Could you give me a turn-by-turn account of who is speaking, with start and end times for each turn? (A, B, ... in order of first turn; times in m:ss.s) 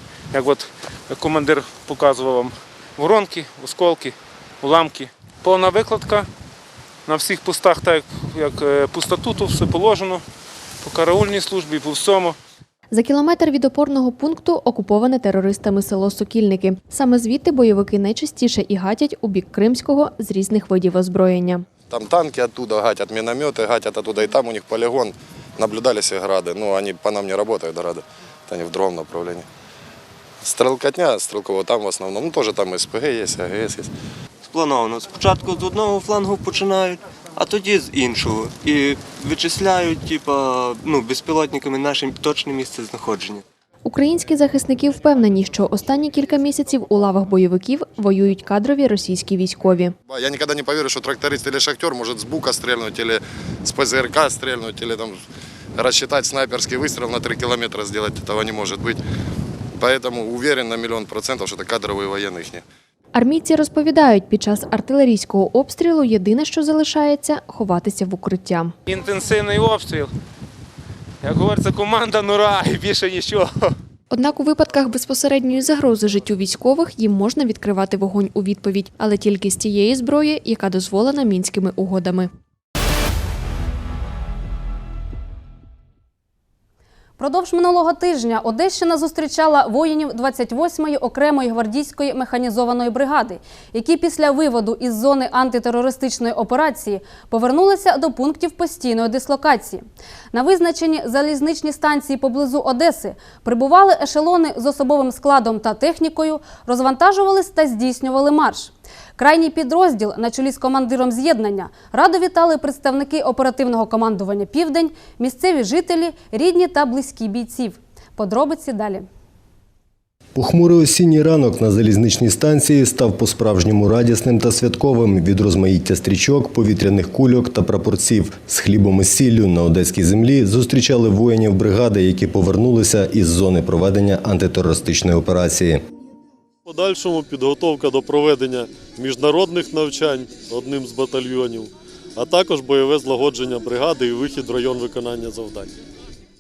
0:00.3-0:06.3 A
0:07.1-0:10.2 A
0:10.8-0:12.4 A
0:12.9-0:21.7 B
0:21.9-0:29.5 C
0:30.4-0:33.9 C
0:34.5-0:43.4 D
0:43.8-0:50.0 B
0:50.1-0:55.2 C
0:55.8-0:59.0 C
0:59.8-1:02.6 C
1:03.1-1:08.8 B
1:08.9-1:10.1 A
1:11.2-1:13.7 A
1:14.1-1:22.3 B
1:27.2-1:59.1 E
2:00.4-2:15.8 F
2:16.6-2:25.7 G